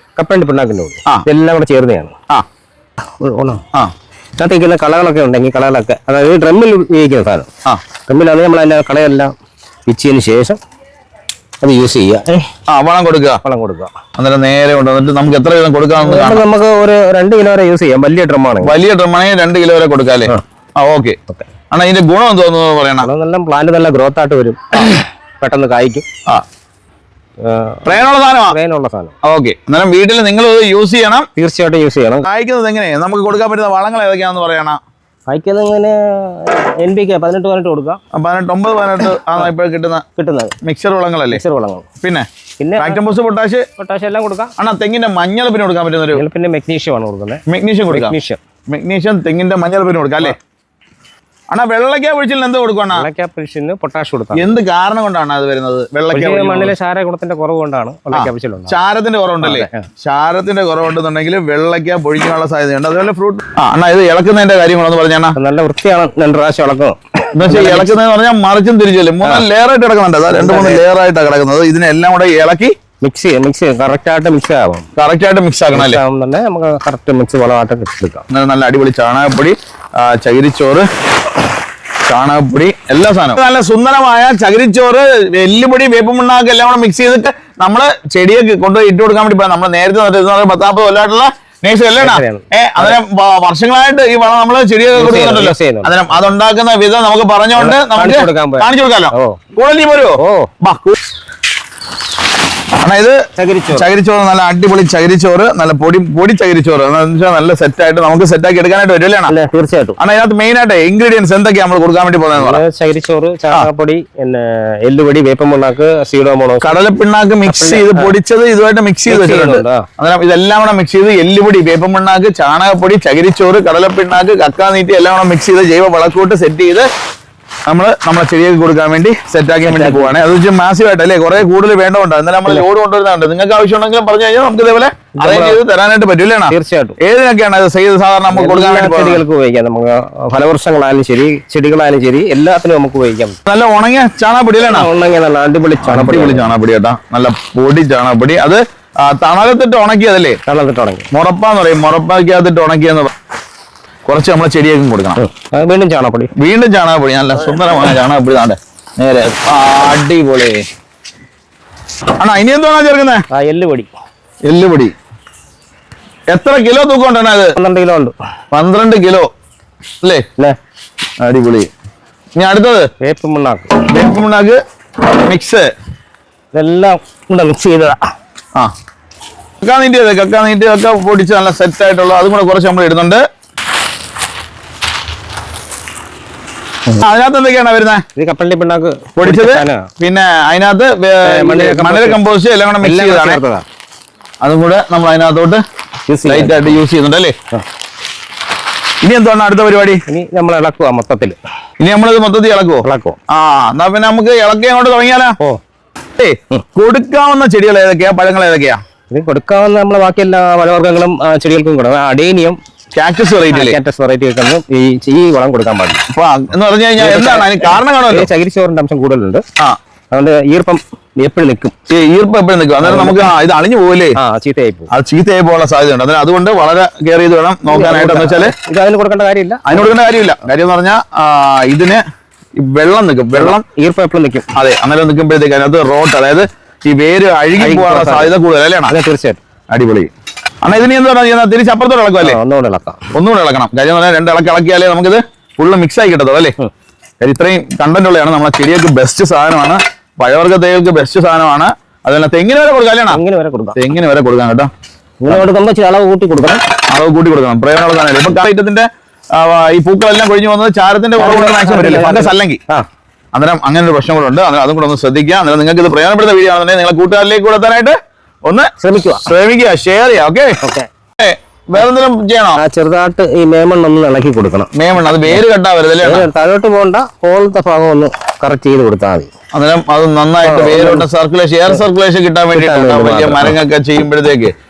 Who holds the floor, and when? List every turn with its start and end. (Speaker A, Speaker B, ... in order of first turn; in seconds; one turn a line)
Speaker A: 0.2-2.1
Speaker A: 3.2-3.6
Speaker A: 4.4-7.5
Speaker A: 8.1-9.3
Speaker A: 9.9-10.6
Speaker A: 11.6-12.5
Speaker B: 12.7-13.4
Speaker A: 13.4-13.9
Speaker B: 14.2-16.4
Speaker A: 16.0-18.8
Speaker B: 18.6-21.2
Speaker B: 21.7-23.1
Speaker A: 23.0-26.1
Speaker A: 27.4-29.1
Speaker B: 27.9-28.6
Speaker B: 29.2-31.3
Speaker A: 31.4-32.3
Speaker B: 32.2-34.8
Speaker A: 35.3-38.0
Speaker B: 38.1-40.0
Speaker A: 40.2-40.5
Speaker B: 40.6-41.4
Speaker A: 41.3-41.9
Speaker A: 42.6-43.0
Speaker B: 42.8-43.6
Speaker A: 43.8-44.5
Speaker B: 44.6-46.2
Speaker A: 46.1-48.4
Speaker B: 47.5-48.1
Speaker B: 48.7-50.4
Speaker B: 51.5-53.1
Speaker A: 52.9-54.5
Speaker B: 54.4-56.8
Speaker A: 56.1-58.8
Speaker B: 58.1-65.4
Speaker A: 59.4-59.9
Speaker A: 65.4-67.9
Speaker B: 67.4-72.7
Speaker A: 70.3-70.8
Speaker A: 73.0-74.9
Speaker B: 75.0-76.0
Speaker A: 75.7-78.2
Speaker B: 78.3-80.9
Speaker B: 82.1-101.0
Speaker A: 92.0-93.0
Speaker A: 94.9-96.3
Speaker A: 97.6-99.4
Speaker A: 100.2-100.5
Speaker B: 102.8-103.2
Speaker A: 103.4-103.9
Speaker B: 103.7-109.3
Speaker A: 109.3-110.0
Speaker B: 110.0-112.6
Speaker A: 112.4-116.8
Speaker B: 116.6-126.9
Speaker A: 117.5-118.1
Speaker A: 119.1-119.8
Speaker B: 127.7-139.2
Speaker A: 129.6-130.2
Speaker A: 135.2-135.6
Speaker A: 136.5-137.0
Speaker A: 138.3-143.4
Speaker B: 143.5-144.9
Speaker A: 144.6-146.6
Speaker B: 145.8-150.4
Speaker A: 150.5-151.1
Speaker B: 151.1-153.1
Speaker B: 154.1-155.2
Speaker A: 155.2-156.3
Speaker B: 156.4-160.6
Speaker B: 162.2-163.2
Speaker A: 163.3-163.9
Speaker B: 164.5-164.9
Speaker B: 166.3-167.6
Speaker A: 167.6-168.1
Speaker B: 168.5-169.3
Speaker B: 171.2-171.7
Speaker B: 172.4-172.9
Speaker A: 173.0-173.8
Speaker B: 173.9-174.6
Speaker B: 175.1-175.7
Speaker A: 176.5-178.0
Speaker B: 179.6-183.2
Speaker B: 186.9-188.0
Speaker A: 188.2-189.9
Speaker B: 189.2-193.4
Speaker A: 191.2-192.2
Speaker A: 192.8-193.7
Speaker B: 194.4-195.6
Speaker A: 196.1-196.8
Speaker B: 196.2-197.3
Speaker B: 199.0-200.0
Speaker A: 200.1-201.4
Speaker B: 201.8-205.4
Speaker A: 202.8-203.2
Speaker B: 206.2-208.8
Speaker A: 209.1-212.6
Speaker B: 212.9-213.8
Speaker A: 213.5-216.0
Speaker B: 216.1-218.3
Speaker A: 217.0-219.4
Speaker A: 220.1-221.7
Speaker B: 221.9-224.2
Speaker A: 222.8-223.3
Speaker A: 224.2-224.9
Speaker B: 224.9-228.5
Speaker A: 227.7-230.0
Speaker B: 229.7-232.0
Speaker B: 232.6-233.6
Speaker A: 233.3-234.5
Speaker B: 234.6-238.9
Speaker A: 237.6-238.3
Speaker A: 238.9-239.4
Speaker B: 239.7-240.1
Speaker B: 240.6-242.4
Speaker A: 242.2-243.1
Speaker B: 243.1-246.5
Speaker B: 247.2-253.2
Speaker A: 253.1-253.8
Speaker B: 253.8-254.7
Speaker A: 255.2-256.6
Speaker B: 256.9-262.6
Speaker A: 261.2-262.9
Speaker B: 263.3-267.9
Speaker B: 268.5-270.6
Speaker A: 268.8-269.3
Speaker A: 270.6-270.9
Speaker B: 271.2-272.6
Speaker A: 272.6-274.7
Speaker B: 274.8-276.3
Speaker A: 276.0-279.3
Speaker B: 279.5-284.5
Speaker A: 280.4-281.1
Speaker A: 282.5-283.6